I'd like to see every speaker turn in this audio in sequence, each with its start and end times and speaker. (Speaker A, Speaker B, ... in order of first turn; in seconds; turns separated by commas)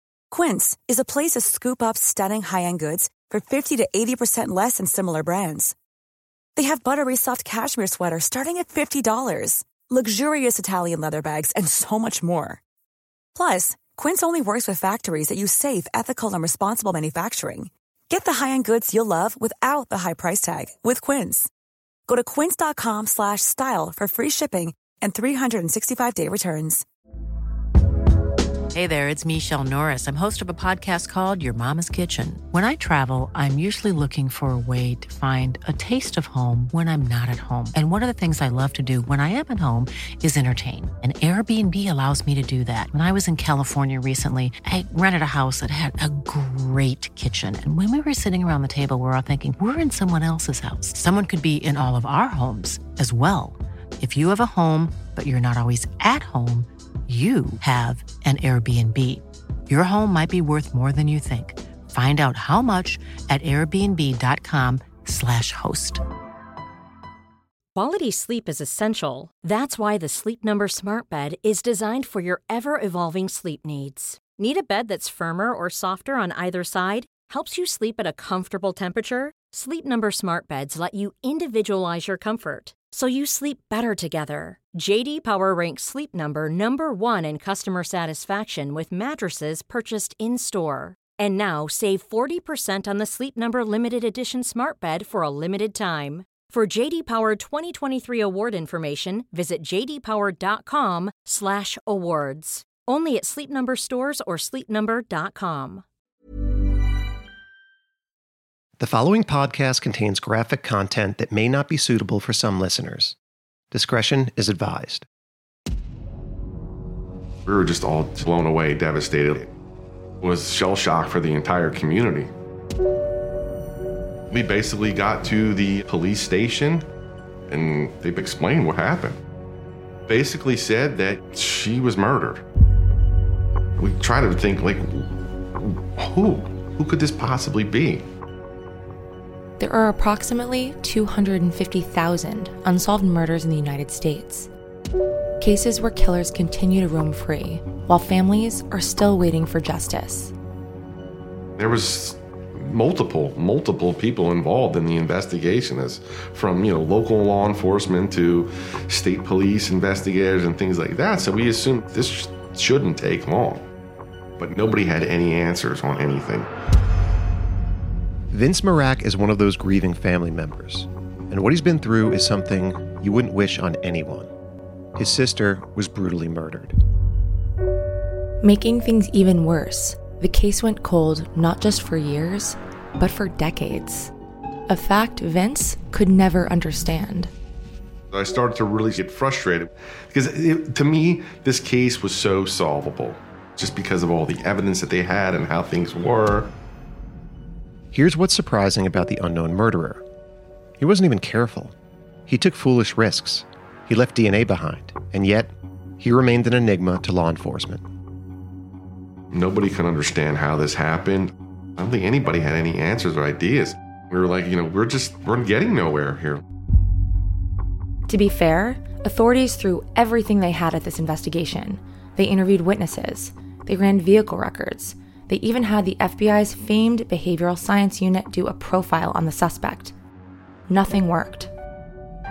Speaker A: 0.3-5.7, Speaker A: 6.5-12.6, Speaker A: 13.3-21.5, Speaker A: 22.1-26.8, Speaker B: 28.7-66.0, Speaker C: 67.7-105.8, Speaker D: 108.8-113.2, Speaker D: 113.7-115.0, Speaker E: 117.5-119.5, Speaker E: 120.2-122.3, Speaker E: 124.3-126.9, Speaker E: 127.5-129.2, Speaker E: 130.1-132.4, Speaker E: 133.8-138.1, Speaker F: 139.6-144.5, Speaker F: 145.4-150.3, Speaker E: 151.6-163.7, Speaker E: 164.4-166.5, Speaker D: 168.3-174.3, Speaker D: 175.0-176.8, Speaker F: 178.4-184.1, Speaker F: 184.7-187.3, Speaker E: 188.1-196.5, Speaker D: 197.9-200.0, Speaker D: 200.8-201.7, Speaker D: 202.3-207.8, Speaker E: 209.3-216.4, Speaker F: 218.1-229.9, Speaker F: 230.7-231.5